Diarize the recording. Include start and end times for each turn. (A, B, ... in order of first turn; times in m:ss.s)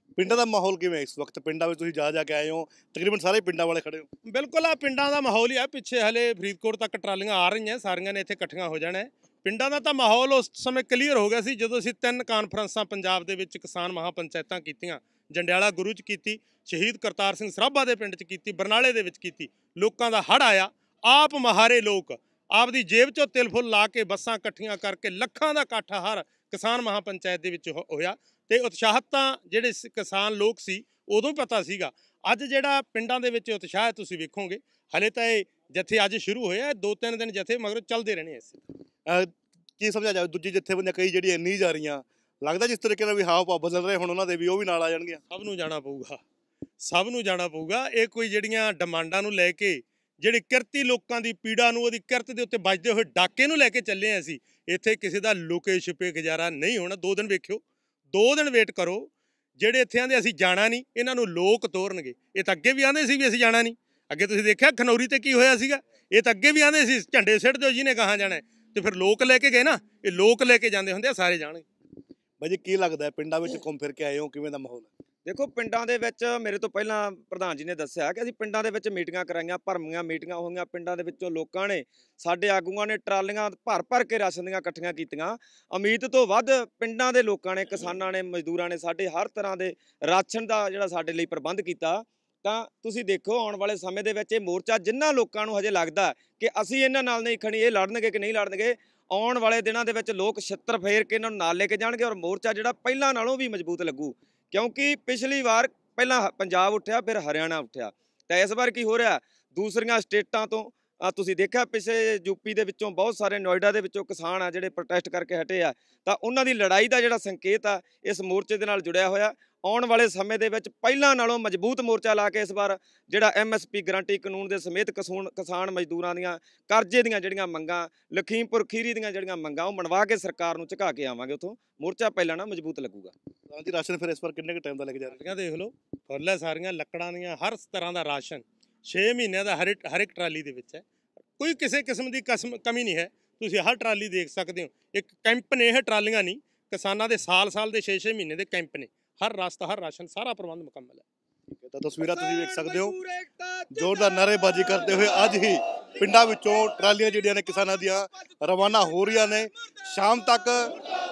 0:00.2-0:04.1 A
0:04.2-0:38.7 B
0:39.0-0:45.2 A
0:45.3-0:46.2 B
0:46.8-1:11.6 B
1:12.4-1:14.9 A
1:15.2-2:13.1 C
2:13.5-2:15.2 A
2:15.1-2:20.8 B
2:21.4-2:31.0 B
2:31.6-2:32.9 A
2:32.0-2:35.1 C
2:33.7-2:40.8 A
2:38.6-2:39.2 C